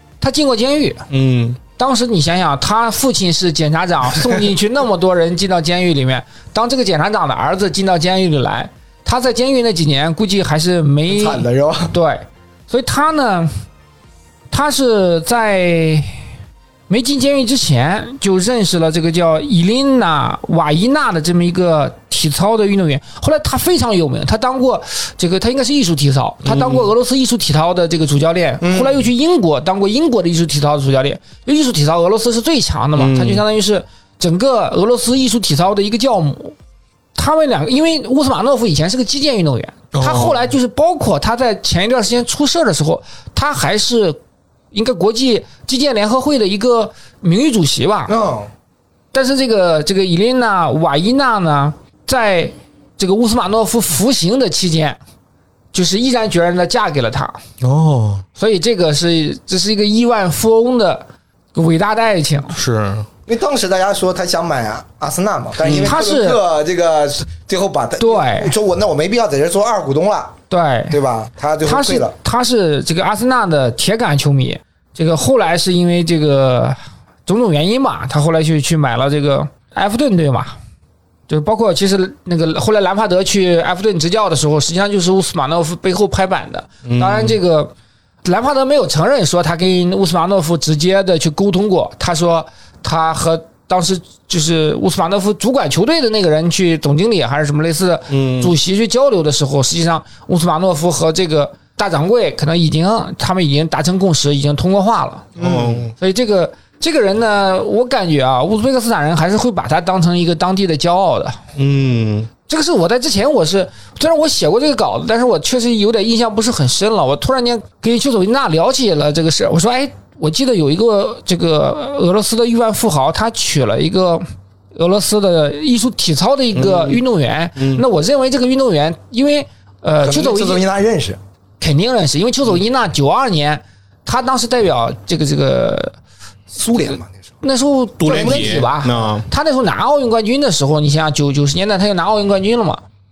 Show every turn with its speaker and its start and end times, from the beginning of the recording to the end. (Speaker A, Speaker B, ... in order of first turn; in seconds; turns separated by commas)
Speaker A: 0.2-1.0, Speaker B: 1.1-1.6, Speaker A: 1.8-13.5, Speaker C: 11.1-11.9, Speaker A: 14.5-16.1, Speaker A: 16.9-36.5, Speaker B: 26.4-26.9, Speaker C: 28.6-29.0, Speaker B: 33.0-33.4, Speaker A: 37.1-44.2, Speaker B: 39.9-40.5, Speaker A: 44.7-48.1, Speaker C: 48.1-48.5, Speaker A: 49.1-55.0, Speaker A: 55.7-57.4, Speaker B: 57.6-58.2, Speaker A: 58.4-62.5, Speaker B: 62.5-63.1, Speaker C: 63.3-70.4, Speaker B: 65.6-65.9, Speaker A: 65.8-66.4, Speaker A: 68.0-68.5, Speaker A: 70.5-71.0, Speaker C: 70.9-72.2, Speaker A: 71.6-80.5, Speaker A: 81.3-87.7, Speaker B: 86.8-87.4, Speaker A: 88.2-105.3, Speaker B: 98.1-98.5, Speaker C: 105.3-105.9, Speaker B: 105.4-105.9, Speaker A: 106.0-111.4, Speaker B: 111.5-112.3, Speaker A: 112.5-130.6, Speaker B: 126.5-127.0, Speaker B: 127.6-127.8, Speaker C: 130.0-131.2, Speaker A: 131.6-135.9, Speaker C: 136.5-137.3, Speaker A: 137.4-142.8, Speaker B: 138.0-139.2, Speaker C: 138.1-138.6